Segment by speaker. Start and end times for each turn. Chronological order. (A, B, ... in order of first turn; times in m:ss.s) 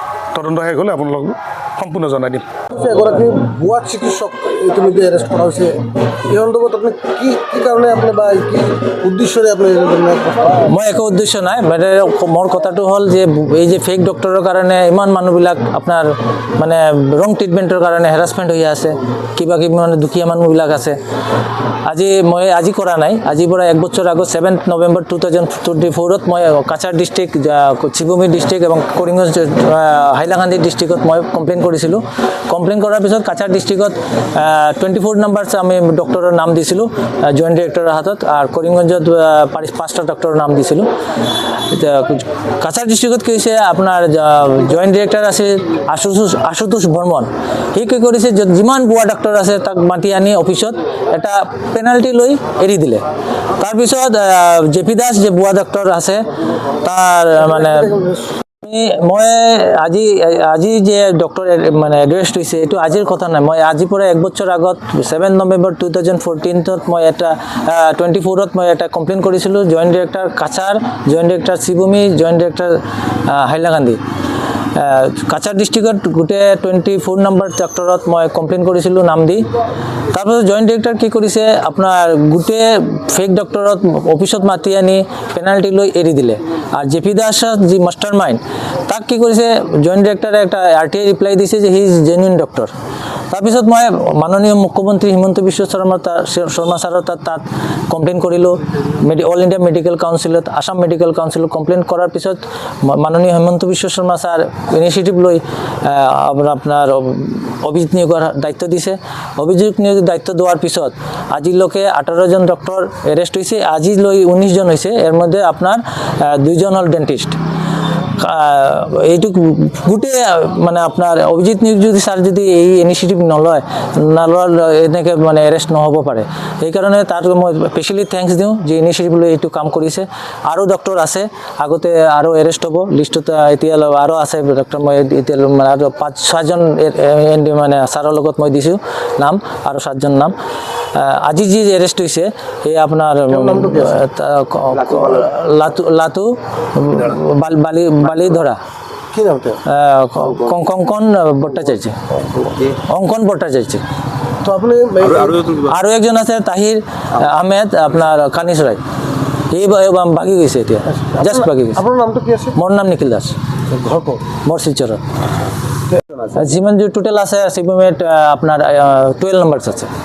0:00.3-0:02.5 A
0:02.7-0:10.6 B
0:10.6-0:21.0 C
0:21.8-0:53.0 C
0:53.6-0:57.9 C
0:57.7-0:58.2 B
0:58.6-1:14.0 C
1:14.7-1:19.4 C
1:20.1-1:32.7 C
1:33.3-1:57.4 C
1:58.2-2:20.3 C
2:20.9-2:28.6 C
2:23.3-2:24.0 B
2:29.1-2:29.6 B
2:29.6-2:32.0 C
2:32.6-2:33.8 C
2:34.4-2:35.4 B
2:35.5-2:38.8 C
2:39.5-2:41.8 C
2:40.9-2:42.5 B
2:42.5-2:43.4 C
2:43.7-2:44.2 B
2:44.3-2:45.0 C
2:46.2-2:49.9 C